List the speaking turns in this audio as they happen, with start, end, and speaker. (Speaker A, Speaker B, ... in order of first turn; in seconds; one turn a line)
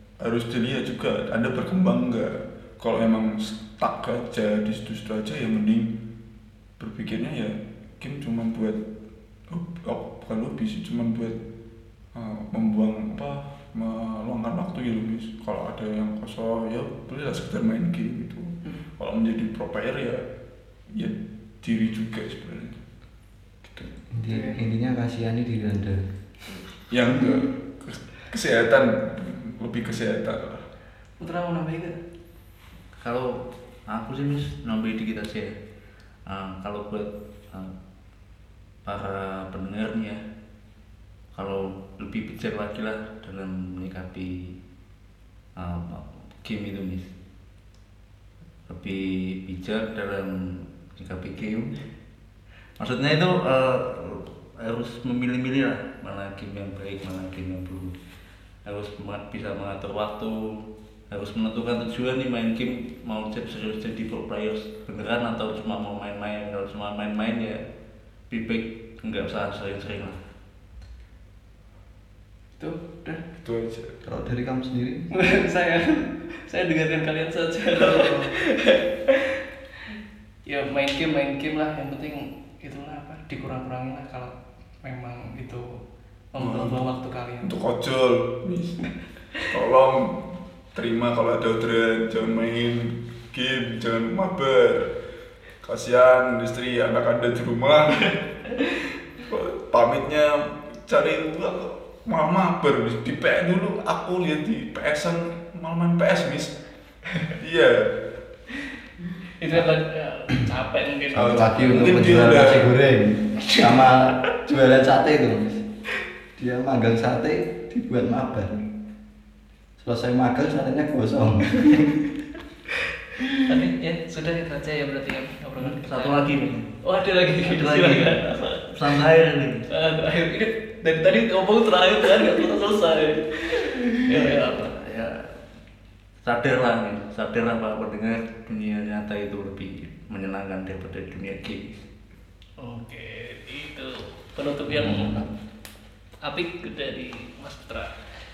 Speaker A: 0.2-5.9
Speaker A: 6.8-8.8
Speaker A: 9.5-11.4
Speaker A: 12.1-20.2
Speaker A: 20.9-22.8
Speaker B: 23.7-26.0
Speaker C: 24.2-24.6
Speaker A: 26.9-30.6
Speaker C: 31.2-32.0
Speaker D: 33.0-35.5
Speaker D: 36.3-37.7
Speaker D: 38.8-40.2
Speaker D: 41.3-44.6
Speaker D: 45.5-47.1
Speaker D: 48.7-51.7
Speaker D: 52.8-57.9
Speaker D: 58.6-67.6
Speaker D: 68.3-70.2
Speaker C: 72.6-73.2
Speaker A: 73.4-74.0
Speaker B: 74.0-75.1
Speaker C: 75.1-79.4
Speaker C: 80.5-85.7
Speaker C: 86.3-87.5
Speaker A: 86.4-86.9
Speaker A: 87.4-88.8
Speaker A: 89.5-94.9
Speaker A: 95.6-98.2
Speaker A: 99.2-106.5
Speaker A: 107.4-107.9
Speaker C: 109.4-112.1
Speaker B: 111.1-115.7
Speaker A: 111.2-112.7
Speaker C: 113.4-113.9
Speaker B: 116.4-118.7
Speaker B: 119.8-122.0
Speaker C: 123.4-129.0
Speaker D: 125.6-126.7
Speaker D: 127.4-129.7
Speaker C: 129.7-134.8
Speaker D: 134.1-135.3
Speaker D: 136.2-141.8
Speaker C: 142.6-145.2
Speaker B: 144.7-145.3
Speaker C: 146.2-147.9